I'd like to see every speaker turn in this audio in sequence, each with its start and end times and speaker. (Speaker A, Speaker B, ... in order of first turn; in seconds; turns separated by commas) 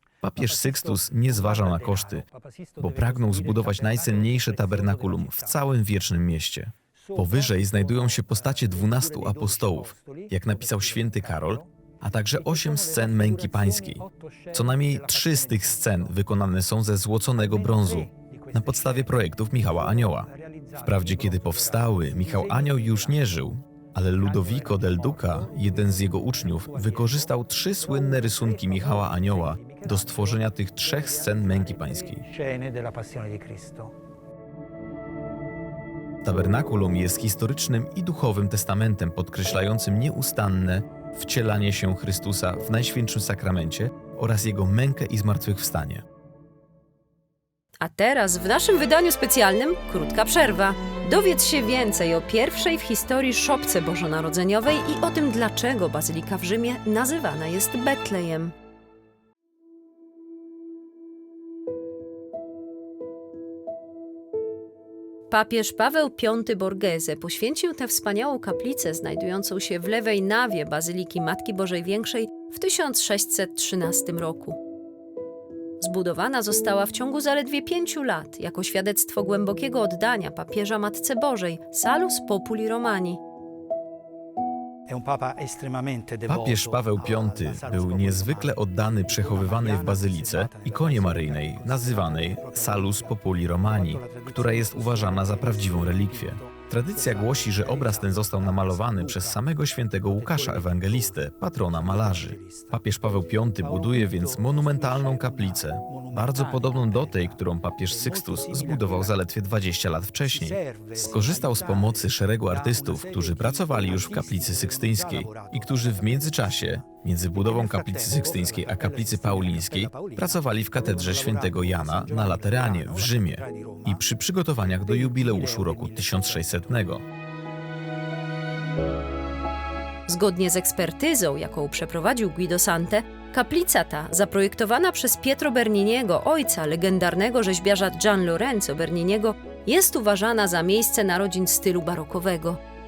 Speaker A: 0.2-2.2, Speaker B: 0.3-5.7, Speaker A: 2.8-32.2, Speaker B: 7.1-11.7, Speaker B: 12.2-16.2, Speaker B: 17.5-23.3, Speaker B: 24.2-33.9, Speaker A: 36.2-46.0, Speaker C: 47.8-58.5, Speaker C: 65.3-74.6, Speaker C: 75.8-83.2, Speaker B: 84.9-99.5, Speaker A: 86.3-127.0, Speaker B: 100.1-102.8, Speaker B: 103.6-109.2, Speaker B: 110.2-124.0, Speaker B: 124.7-127.0, Speaker C: 130.1-142.6